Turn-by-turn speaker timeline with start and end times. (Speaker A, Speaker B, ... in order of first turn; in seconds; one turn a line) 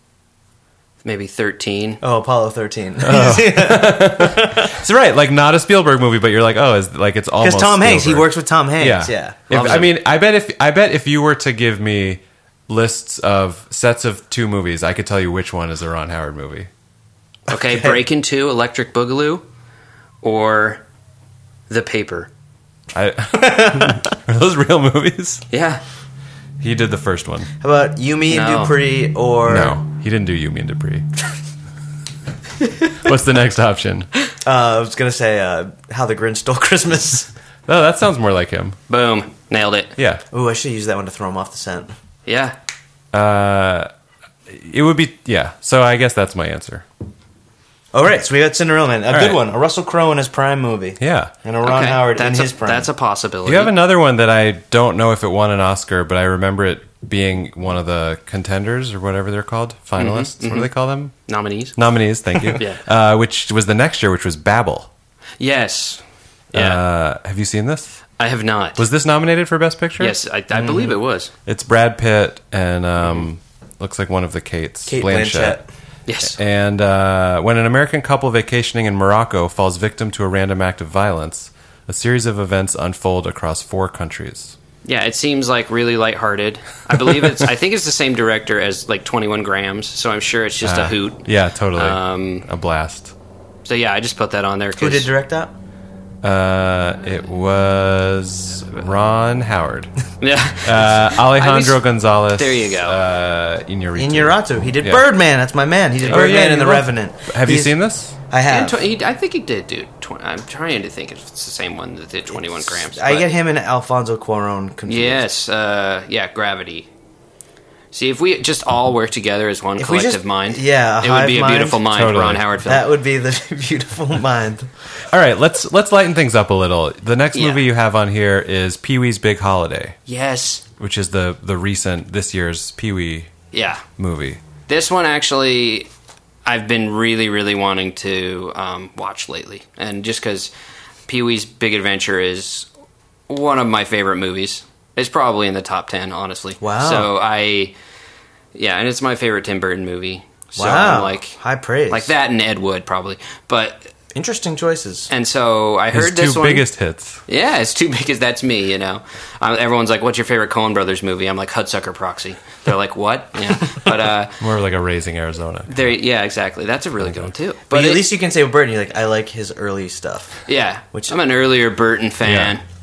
Speaker A: 1.0-2.0
Speaker B: 2.0-4.8
Speaker C: 3.0-16.7
Speaker B: 7.4-9.4
Speaker A: 9.5-9.9
Speaker A: 17.5-19.4
Speaker A: 20.2-20.8
Speaker A: 21.7-22.3
Speaker C: 22.9-25.4
Speaker B: 23.4-24.0
Speaker A: 25.5-25.8
Speaker C: 26.6-27.5
Speaker B: 27.6-29.8
Speaker A: 28.3-28.8
Speaker C: 29.5-31.1
Speaker C: 33.0-34.1
Speaker B: 34.4-37.3
Speaker C: 37.7-38.8
Speaker A: 38.9-39.9
Speaker C: 40.0-40.2
Speaker B: 40.3-41.9
Speaker A: 42.2-42.6
Speaker C: 43.1-43.9
Speaker C: 44.5-46.9
Speaker B: 47.9-52.9
Speaker C: 49.1-49.4
Speaker C: 51.0-51.3
Speaker A: 51.6-53.7
Speaker C: 53.5-61.1
Speaker A: 60.0-60.7
Speaker A: 61.2-61.8
Speaker C: 61.8-64.9
Speaker A: 65.4-66.0
Speaker A: 66.5-66.8
Speaker C: 66.5-68.0
Speaker A: 68.2-68.8
Speaker C: 68.8-70.2
Speaker A: 70.0-71.3
Speaker B: 70.5-71.0
Speaker C: 71.5-75.6
Speaker B: 74.9-75.7
Speaker A: 76.1-76.4
Speaker C: 76.2-84.5
Speaker A: 84.8-91.2
Speaker C: 90.6-93.1
Speaker A: 91.8-92.5
Speaker A: 93.6-95.1
Speaker B: 94.8-95.5
Speaker C: 96.2-99.9
Speaker A: 100.2-101.8
Speaker C: 100.6-105.0
Speaker A: 102.3-103.0
Speaker B: 104.0-107.8
Speaker A: 106.0-106.3
Speaker C: 106.1-108.1
Speaker B: 108.3-108.8
Speaker A: 108.5-113.3
Speaker B: 112.5-115.2
Speaker A: 114.9-116.9
Speaker A: 117.9-122.9
Speaker B: 119.8-121.8
Speaker C: 121.9-122.5
Speaker B: 122.7-124.7
Speaker C: 125.1-130.0
Speaker A: 127.3-127.6
Speaker A: 130.1-130.7
Speaker C: 130.8-133.3
Speaker A: 133.5-133.8
Speaker C: 134.0-134.4
Speaker A: 134.7-135.9
Speaker A: 136.5-140.5
Speaker A: 141.1-142.7
Speaker A: 143.3-147.7
Speaker B: 146.6-147.1
Speaker A: 148.5-151.4
Speaker B: 150.6-152.1
Speaker A: 151.9-153.9
Speaker B: 154.1-155.1
Speaker A: 155.1-156.7
Speaker C: 155.9-157.2
Speaker A: 157.3-164.4
Speaker C: 164.4-165.8
Speaker A: 165.7-168.1
Speaker C: 167.0-167.3
Speaker B: 167.7-170.4
Speaker A: 170.5-172.6
Speaker B: 170.9-171.2
Speaker C: 172.2-172.5